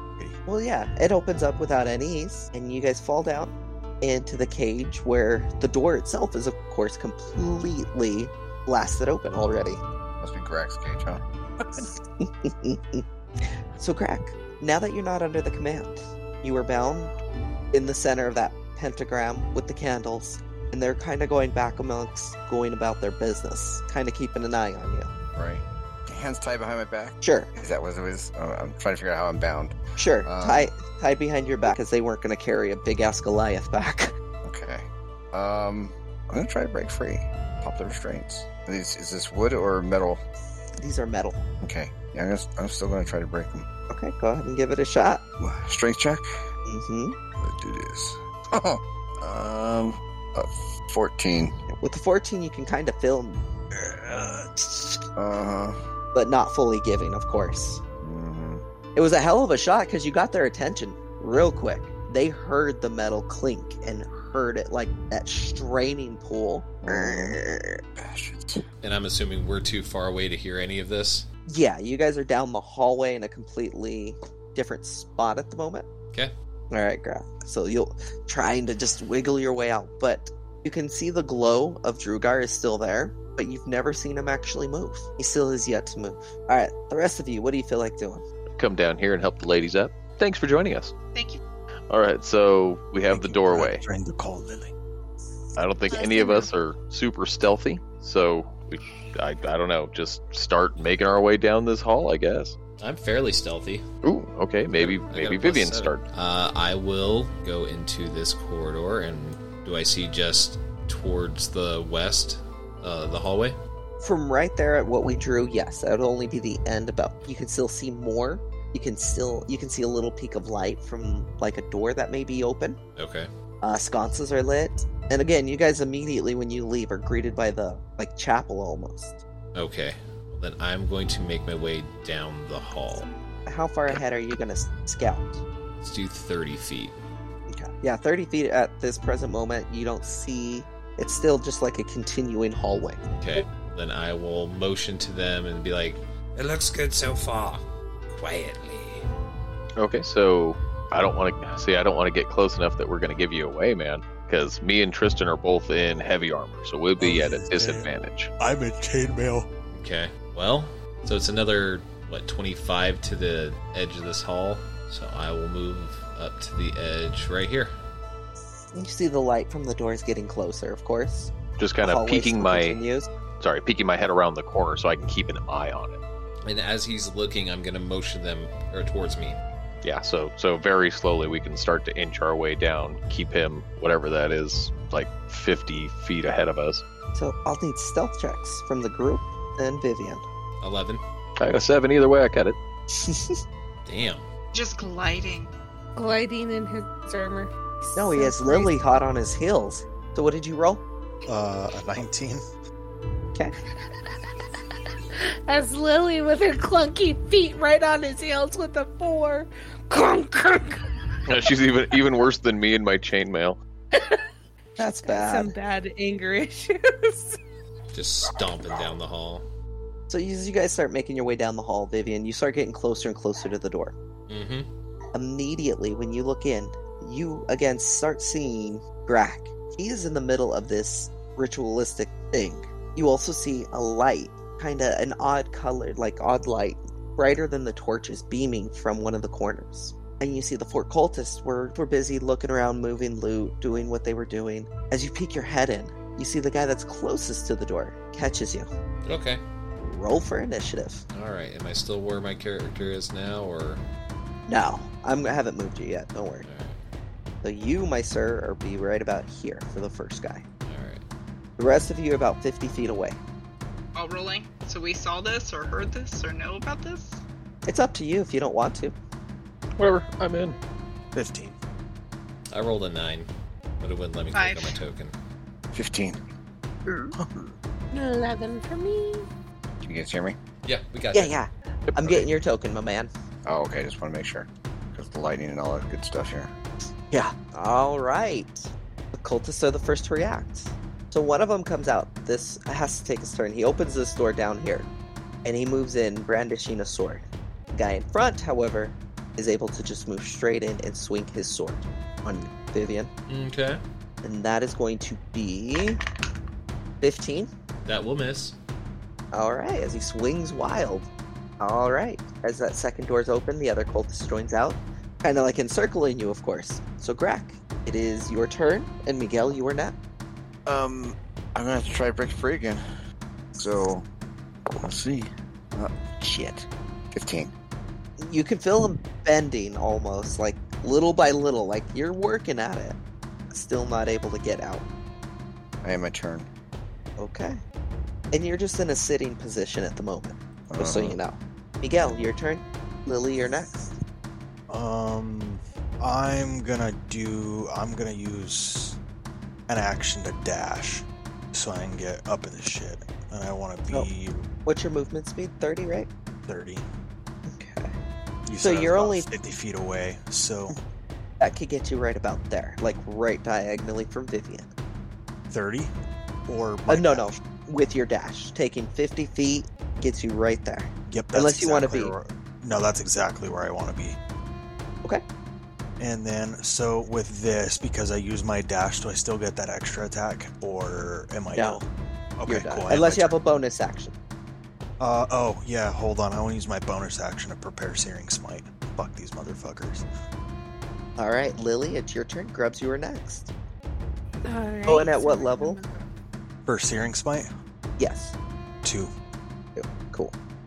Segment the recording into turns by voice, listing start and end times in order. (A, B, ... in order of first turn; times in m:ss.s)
0:00.5-0:09.8 A
0:10.2-0:11.2 B
0:12.2-0:13.0 A
0:13.8-0:17.1 A
0:17.7-0:25.1 A
0:25.4-0:30.7 B
0:27.2-0:27.5 A
0:30.0-0:34.1 A
0:34.4-0:40.2 B
0:40.8-0:41.4 A
0:41.6-0:43.7 B
0:43.9-0:45.2 A
0:45.4-0:46.3 B
0:46.7-0:47.2 A
0:47.4-0:51.6 B
0:51.8-0:53.4 A
0:54.6-0:55.0 A
0:55.2-0:55.8 B
0:56.1-0:57.8 A
0:58.0-0:58.6 B
0:59.0-1:07.8 A
1:06.8-1:07.4 B
1:08.0-1:08.6 B
1:08.8-1:11.3 C
1:11.5-1:15.9 A
1:16.7-1:28.2 A
1:28.6-1:30.9 D
1:31.2-1:31.4 E
1:31.9-1:33.8 D
1:33.1-1:34.7 F
1:35.6-1:42.6 D
1:35.9-1:36.5 G
1:42.8-1:43.8 C
1:44.0-1:46.0 D
1:44.7-1:53.6 C
1:54.0-2:02.8 A
2:03.0-2:03.3 C
2:03.6-2:09.2 A
2:09.6-2:13.1 C
2:13.5-2:15.4 A
2:15.8-2:17.0 C
2:17.5-2:23.0 A
2:23.2-2:29.1 C
2:29.8-2:38.3 D
2:37.0-2:39.5 F
2:39.7-2:47.7 C
2:48.7-2:53.1 A
2:51.6-2:52.8 D
2:53.4-2:56.0 D
2:56.4-2:59.4 C
2:59.8-3:06.8 D
3:07.2-3:10.2 A
3:10.6-3:11.0 C
3:11.4-3:12.6 D
3:13.0-3:13.4 A
3:13.9-3:14.2 C
3:14.5-3:15.5 E
3:16.0-3:18.7 G
3:18.0-3:20.8 A
3:21.3-3:22.4 F
3:25.5-3:30.8 G
3:31.3-3:33.6 D
3:33.9-3:34.2 G
3:34.8-3:35.5 A
3:35.0-3:37.4 G
3:37.9-3:39.4 C
3:40.1-3:44.0 A
3:44.3-3:44.7 C
3:45.1-4:08.7 A
4:09.1-4:09.4 C
4:09.8-4:11.0 A
4:11.1-4:13.8 C
4:14.5-4:16.4 A
4:16.4-4:16.8 C
4:17.4-4:20.4 A
4:20.7-4:21.0 C
4:21.6-4:23.2 A
4:24.0-4:27.2 E
4:27.7-4:29.0 A
4:29.8-4:30.6 D
4:31.2-4:31.6 F
4:32.5-4:33.3 C
4:33.8-4:35.1 C
4:34.3-4:34.8 E
4:35.7-4:36.2 B
4:37.2-4:37.5 B
4:37.9-4:39.3 G
4:39.8-4:40.4 B
4:40.6-4:41.4 C
4:41.1-4:43.1 A
4:43.5-4:46.5 B
4:47.1-4:54.9 A
4:55.4-5:03.1 A
5:03.3-5:03.8 C
5:04.2-5:06.0 A
5:07.0-5:07.5 A
5:07.9-5:08.6 C
5:09.3-5:11.1 A
5:11.6-5:20.0 A
5:20.7-5:22.8 B
5:23.6-5:24.1 B
5:24.8-5:27.5 B
5:28.2-5:33.0 A
5:33.5-5:34.8 A
5:35.8-5:36.5 B
5:37.2-5:37.6 A
5:38.3-5:43.8 A
5:40.7-5:41.2 B
5:44.7-5:49.0 F
5:49.7-5:54.5 F
5:54.7-5:56.1 A
5:56.4-5:56.8 F
5:57.5-5:57.9 A
5:58.5-6:00.8 F
5:58.6-5:59.3 A
6:01.4-6:04.7 A
6:05.5-6:05.9 F
6:06.5-6:07.3 F
6:06.9-6:12.2 A
6:11.1-6:14.2 F
6:16.0-6:21.8 F
6:21.5-6:21.8 A
6:22.4-6:23.3 F
6:22.5-6:24.2 A
6:25.0-6:30.0 F
6:31.2-6:33.5 A
6:34.5-6:36.1 G
6:34.9-6:35.8 A
6:36.7-6:37.5 F
6:38.0-6:38.4 A
6:38.8-6:39.1 F
6:39.8-6:40.3 A